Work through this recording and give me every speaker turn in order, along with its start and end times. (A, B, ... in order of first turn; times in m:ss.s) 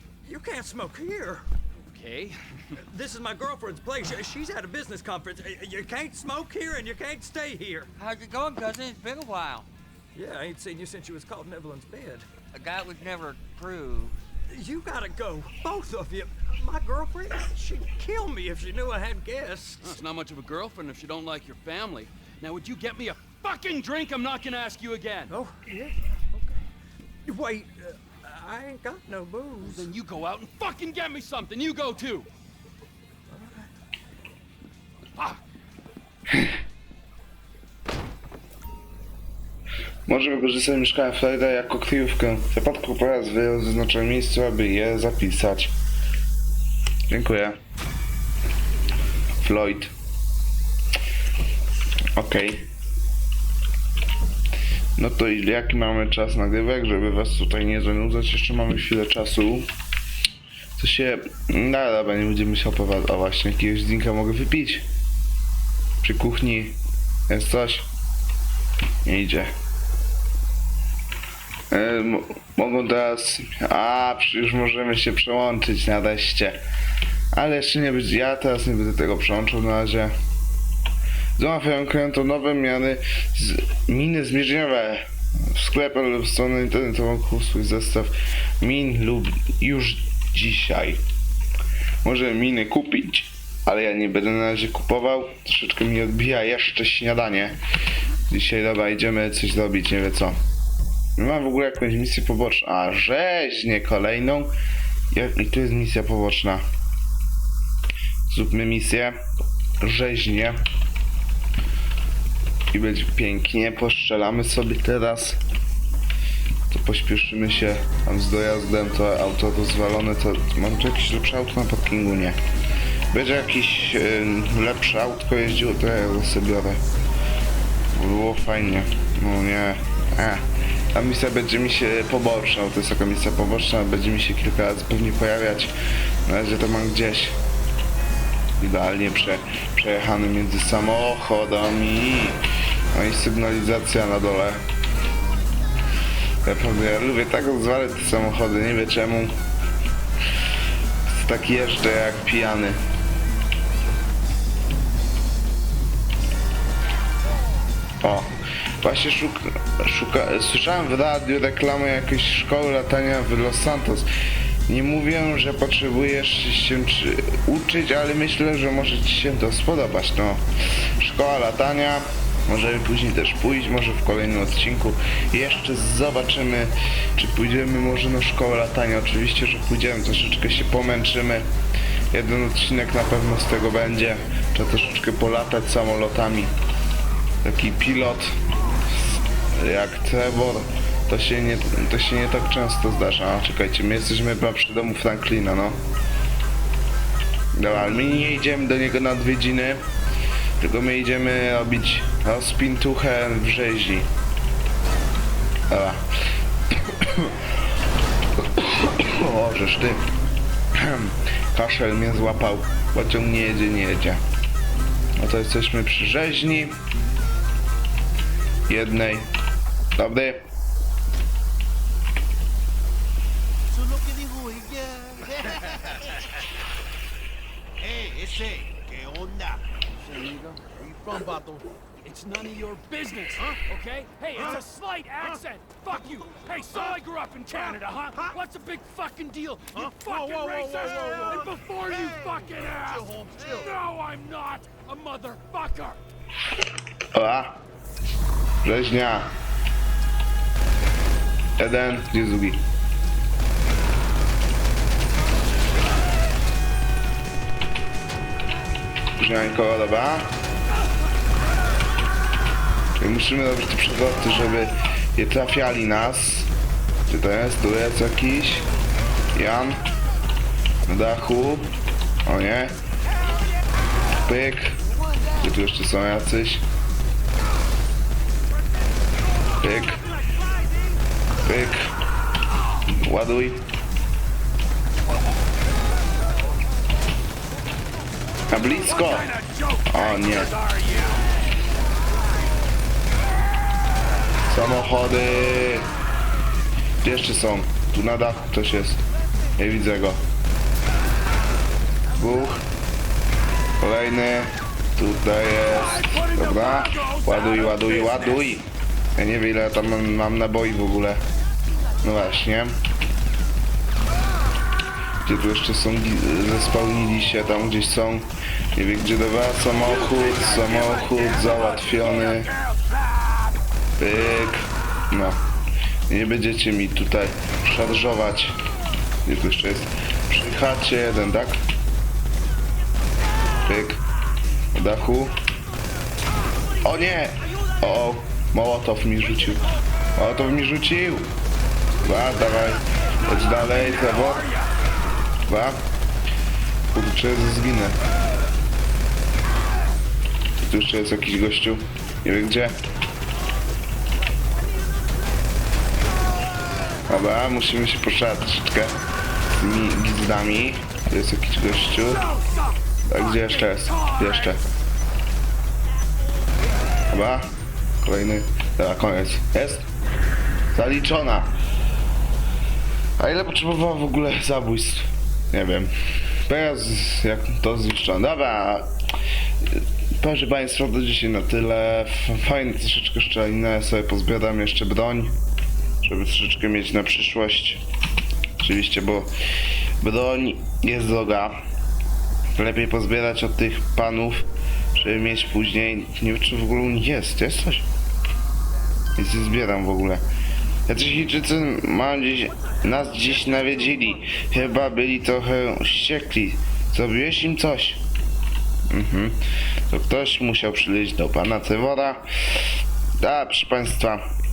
0:00.2-0:01.5 A
0:01.8-0:02.8 B
0:02.8-0:07.9 A
0:08.0-0:09.7 C
0:10.2-0:12.2 A
0:12.5-0:14.2 C
0:14.5-0:20.0 A
0:19.8-0:25.3 B
0:25.3-0:26.7 A
0:27.2-0:29.9 A
0:29.6-0:32.3 B
0:33.3-0:33.7 A
0:35.2-0:35.4 B
0:40.1-0:45.7 D
0:47.1-0:47.6 D
0:49.4-0:49.9 D
0:52.2-0:52.7 D
0:55.0-0:59.7 D
1:00.8-1:04.9 D
1:06.0-1:06.8 D
1:07.3-1:07.9 D
1:09.0-1:09.5 D
1:11.7-1:16.6 D
1:17.3-1:20.1 D
1:21.4-1:31.0 D
1:32.0-1:37.6 D
1:38.3-1:40.4 D
1:41.2-1:44.5 D
1:45.1-1:46.6 D
1:48.3-1:49.2 D
1:49.8-1:50.6 D
1:52.7-1:55.4 D
1:56.7-2:02.4 D
2:03.1-2:06.8 D
2:07.9-2:15.7 D
2:16.3-2:17.4 D
2:18.6-2:24.6 D
2:26.4-2:29.4 D
2:31.1-2:32.8 D
2:38.0-2:44.1 D
2:44.7-2:50.5 D
2:51.0-3:01.5 D
3:02.1-3:06.6 D
3:07.4-3:08.4 D
3:09.0-3:15.8 D
3:17.5-3:19.8 D
3:20.6-3:24.1 D
3:25.7-3:26.1 D
3:26.7-3:27.4 D
3:28.4-3:30.0 D
3:30.8-3:34.2 D
3:35.2-3:36.8 D
3:38.7-3:39.3 D
3:40.0-3:40.4 D
3:43.7-3:46.3 E
3:47.8-3:49.7 E
3:50.0-3:50.6 B
3:50.7-3:51.7 E
3:52.0-4:06.0 B
3:59.8-4:03.8 E
4:07.1-4:07.6 D
4:08.6-4:09.3 D
4:11.6-4:12.6 D
4:19.2-4:20.3 D
4:20.9-4:21.4 B
4:23.0-4:26.5 D
4:27.1-4:28.7 D
4:29.3-4:29.8 D
4:30.9-4:31.7 D
4:32.3-4:32.8 D
4:33.1-4:34.2 E
4:34.1-4:34.8 D
4:34.8-4:35.4 E
4:35.4-4:36.6 D
4:39.0-4:41.0 B
4:39.6-4:40.0 D
4:41.4-4:41.9 D
4:42.5-4:42.9 B
4:42.9-4:43.7 D
4:48.5-4:49.3 D
4:48.6-4:51.3 B
4:49.9-4:50.5 D
4:54.5-4:55.9 D
4:57.0-4:59.0 D
4:59.6-5:00.2 D
5:02.1-5:02.6 B
5:02.2-5:02.6 D
5:03.8-5:11.2 D
5:05.6-5:08.5 B
5:11.7-5:12.3 B
5:12.0-5:12.8 D
5:15.3-5:22.5 D
5:19.7-5:23.6 B
5:24.0-5:25.4 D
5:26.1-5:28.6 D
5:29.2-5:31.6 D
5:33.6-5:34.0 D
5:34.7-5:35.4 D
5:36.8-5:41.3 D
5:42.0-5:44.5 D
5:42.0-5:44.8 B
5:45.5-5:45.8 D
5:46.9-5:48.0 D
5:50.6-5:52.8 D
5:54.7-5:55.1 B
5:57.0-5:59.0 D
5:59.6-6:02.3 D
6:02.0-6:04.6 B
6:03.1-6:04.6 D
6:07.1-6:07.5 D
6:08.0-6:09.9 D
6:10.7-6:11.5 D
6:13.2-6:15.9 D
6:16.5-6:18.9 D
6:19.7-6:25.4 D
6:26.0-6:27.8 D
6:28.6-6:29.3 D
6:30.0-6:31.6 D
6:32.6-6:37.9 D
6:39.2-6:40.2 D
6:40.9-6:48.0 D
6:42.8-6:44.6 B
6:48.9-6:52.3 D
6:53.2-6:54.2 D